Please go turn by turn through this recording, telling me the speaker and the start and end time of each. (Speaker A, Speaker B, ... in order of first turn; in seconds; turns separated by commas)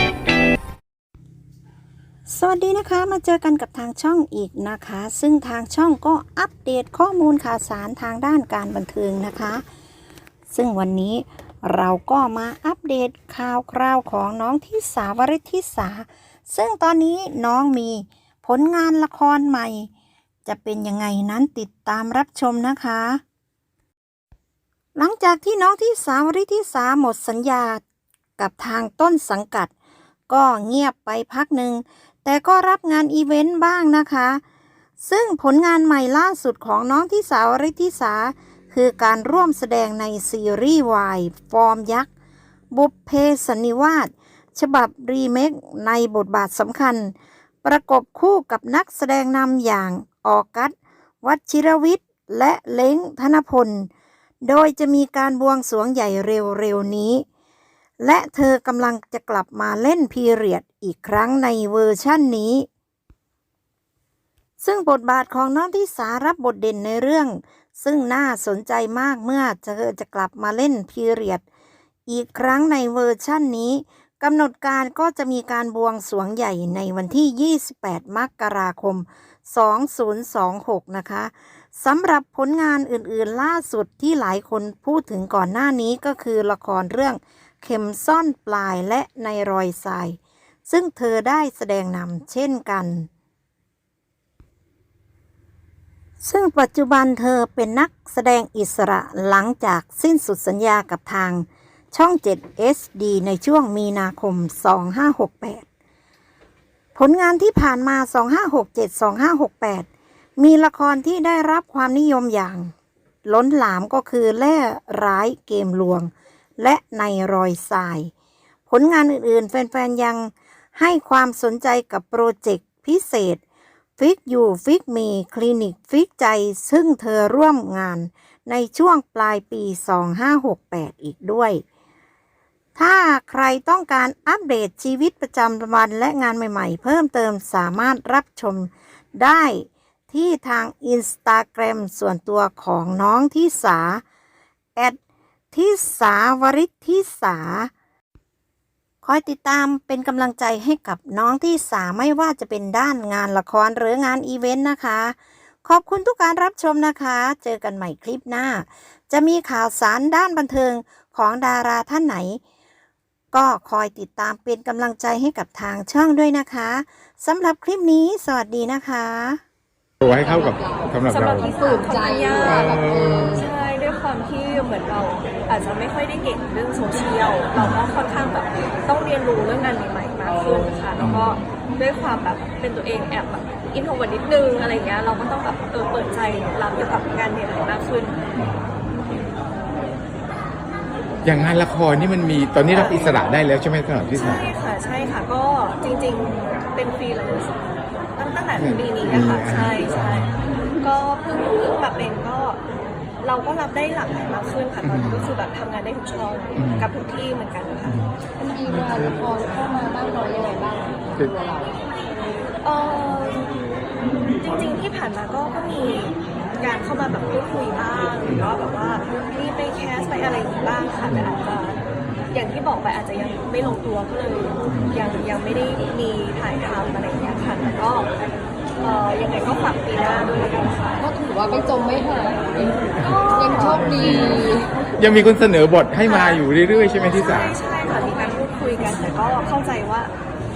Speaker A: 2.3-9.6, Speaker A: 10.5-19.9, Speaker A: 20.4-23.2, Speaker A: 24.9-27.8, Speaker A: 28.4-29.7, Speaker A: 30.3-34.4, Speaker A: 35.0-42.1, Speaker A: 42.7-53.9, Speaker A: 54.4-57.2, Speaker A: 58.0-62.7, Speaker A: 64.6-71.4, Speaker A: 72.1-93.1, Speaker A: 96.2-105.6, Speaker A: 106.9-109.9, Speaker A: 110.4-112.7, Speaker A: 113.2-118.1, Speaker A: 118.7-123.4, Speaker A: 124.0-131.6, Speaker A: 132.8-144.0, Speaker A: 145.5-147.7, Speaker A: 149.0-162.4, Speaker A: 163.3-169.4, Speaker B: 170.0-171.5, Speaker C: 170.0-173.5, Speaker D: 171.1-172.8, Speaker B: 172.4-173.5, Speaker D: 173.3-188.2, Speaker B: 177.6-177.8, Speaker B: 181.0-181.3, Speaker B: 188.3-188.7, Speaker B: 191.2-194.4, Speaker D: 192.7-193.2, Speaker D: 194.1-197.6, Speaker D: 198.2-200.3, Speaker B: 198.6-200.4, Speaker D: 200.8-202.6, Speaker D: 203.2-208.0, Speaker B: 204.8-205.3, Speaker B: 206.6-206.9, Speaker B: 207.9-208.2, Speaker C: 208.4-211.8, Speaker B: 208.7-209.1, Speaker D: 212.6-213.5, Speaker D: 214.4-228.1, Speaker B: 224.7-225.0, Speaker D: 228.8-231.0, Speaker C: 231.0-234.8, Speaker D: 233.0-234.1, Speaker B: 233.8-237.6, Speaker D: 236.0-236.4, Speaker D: 237.0-240.1